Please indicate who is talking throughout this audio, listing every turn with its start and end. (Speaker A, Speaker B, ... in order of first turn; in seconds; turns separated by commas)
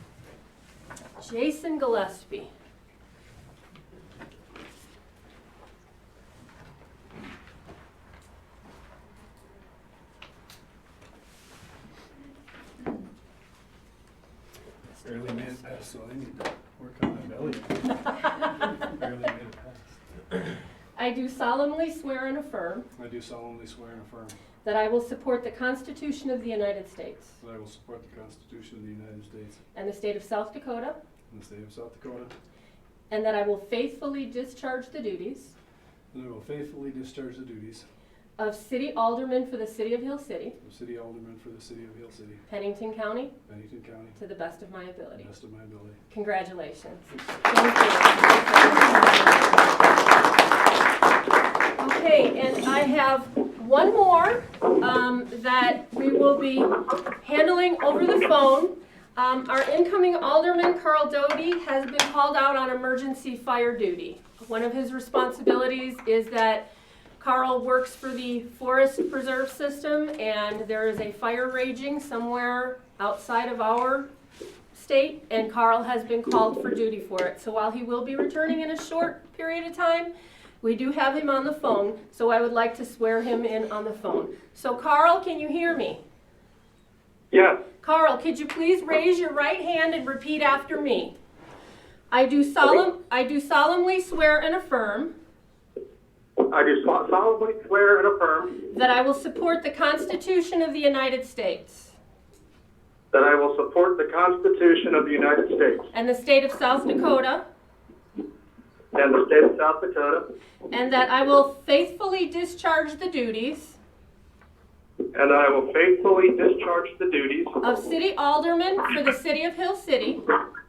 Speaker A: 1.2-2.5, Speaker B: 15.0-18.0, Speaker B: 18.6-19.9, Speaker A: 21.0-22.9, Speaker B: 23.0-24.4, Speaker A: 24.6-27.4, Speaker B: 27.4-29.6, Speaker A: 29.7-31.0, Speaker B: 31.3-32.3, Speaker A: 33.1-35.5, Speaker B: 36.1-37.9, Speaker A: 38.4-40.6, Speaker B: 40.6-42.4, Speaker A: 42.5-43.4, Speaker B: 43.5-44.2, Speaker A: 44.2-45.3, Speaker B: 45.1-46.0, Speaker A: 46.1-49.7, Speaker A: 51.8-74.1, Speaker A: 74.7-80.1, Speaker A: 80.6-86.0, Speaker C: 87.3-87.6, Speaker A: 87.8-91.2, Speaker A: 92.1-95.1, Speaker C: 96.5-98.5, Speaker A: 98.7-101.9, Speaker C: 103.1-105.9, Speaker A: 105.9-107.4, Speaker C: 108.9-110.2, Speaker A: 110.7-113.8, Speaker C: 115.1-117.6, Speaker A: 117.6-120.2